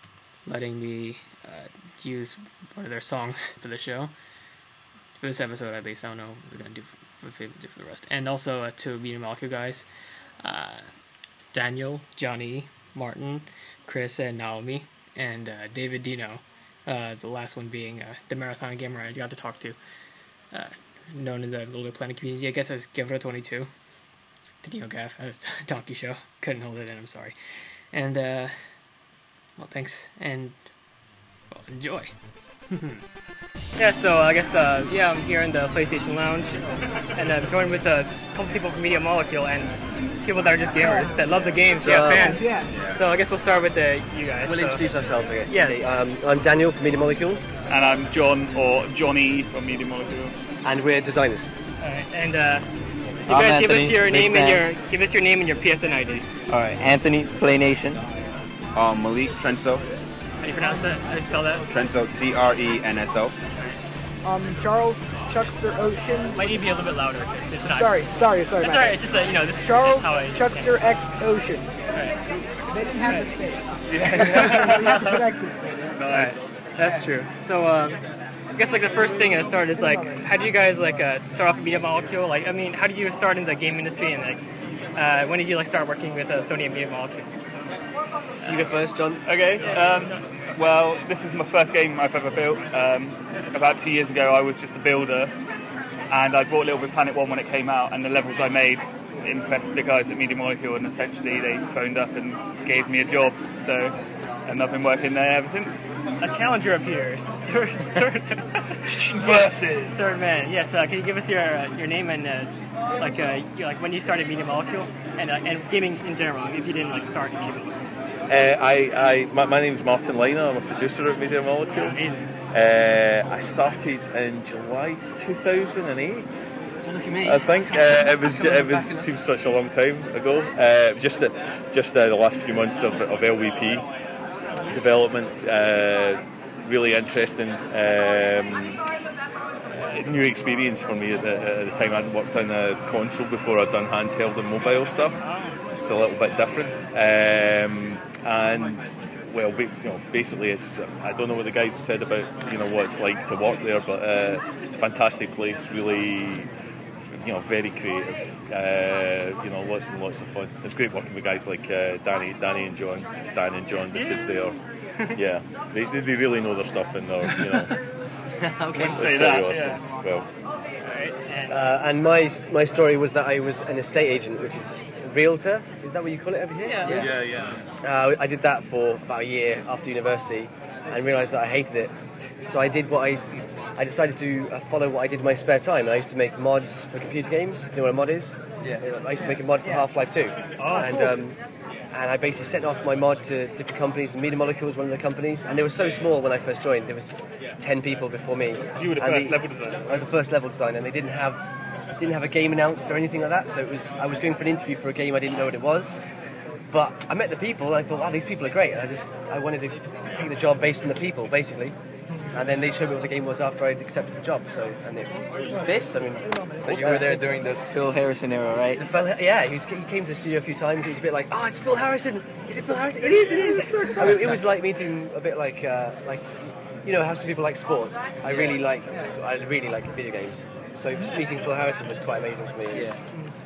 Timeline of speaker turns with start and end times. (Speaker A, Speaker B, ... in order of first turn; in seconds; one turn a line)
Speaker A: 0.5-4.1
Speaker A: 5.2-9.8
Speaker A: 10.4-10.9
Speaker A: 11.5-19.8
Speaker A: 20.5-23.7
Speaker A: 24.6-27.3
Speaker A: 27.9-28.5
Speaker A: 29.6-30.6
Speaker A: 31.5-32.1
Speaker A: 32.7-33.0
Speaker B: 33.8-36.6
Speaker B: 37.1-44.8
Speaker C: 40.7-41.3
Speaker D: 41.8-42.4
Speaker C: 41.9-42.7
Speaker E: 42.7-43.0
Speaker D: 44.4-47.4
Speaker B: 45.5-45.9
Speaker F: 47.7-50.3
Speaker D: 50.6-51.5
Speaker B: 51.8-52.7
Speaker G: 53.3-54.7
Speaker B: 53.3-56.3
Speaker G: 56.5-58.0
Speaker E: 58.7-59.8
Speaker B: 60.4-61.6
Speaker E: 61.7-63.4
Speaker C: 64.2-66.7
Speaker B: 66.3-70.8
Speaker C: 67.7-71.7
Speaker C: 72.7-76.0
Speaker B: 73.0-73.3
Speaker F: 73.9-75.2
Speaker B: 74.3-75.0
Speaker F: 76.0-76.3
Speaker B: 76.1-78.0
Speaker C: 76.8-77.1
Speaker B: 78.5-84.4
Speaker C: 78.7-80.3
Speaker B: 85.0-87.3
Speaker D: 88.4-89.2
Speaker F: 89.2-95.3
Speaker B: 89.6-90.1
Speaker F: 96.1-103.9
Speaker F: 104.5-105.9
Speaker B: 106.2-117.8
Speaker F: 108.8-110.1
Speaker H: 118.3-122.0
Speaker B: 121.7-122.3
Speaker H: 122.5-126.5
Speaker D: 126.8-129.1
Speaker H: 127.2-133.8
Speaker H: 134.6-138.9
Speaker H: 139.7-145.2
Speaker B: 145.2-145.6
Speaker H: 145.8-164.6
Speaker B: 163.9-164.4
Speaker H: 165.1-167.8
Speaker B: 167.3-167.6
Speaker G: 168.4-169.3
Speaker F: 168.7-169.8
Speaker H: 168.9-170.3
Speaker B: 170.8-171.6
Speaker D: 171.5-177.1
Speaker B: 176.6-177.1
Speaker G: 176.8-177.1
Speaker H: 176.9-177.7
Speaker D: 177.8-181.9
Speaker D: 182.4-191.4
Speaker B: 190.6-191.1
Speaker D: 191.9-206.0
Speaker F: 198.8-200.1
Speaker D: 206.7-211.8
Speaker D: 212.3-217.3
Speaker G: 215.4-215.9
Speaker C: 216.2-217.0
Speaker G: 216.6-218.8
Speaker D: 218.8-232.9
Speaker G: 223.0-224.4
Speaker G: 228.2-228.6
Speaker G: 232.7-233.0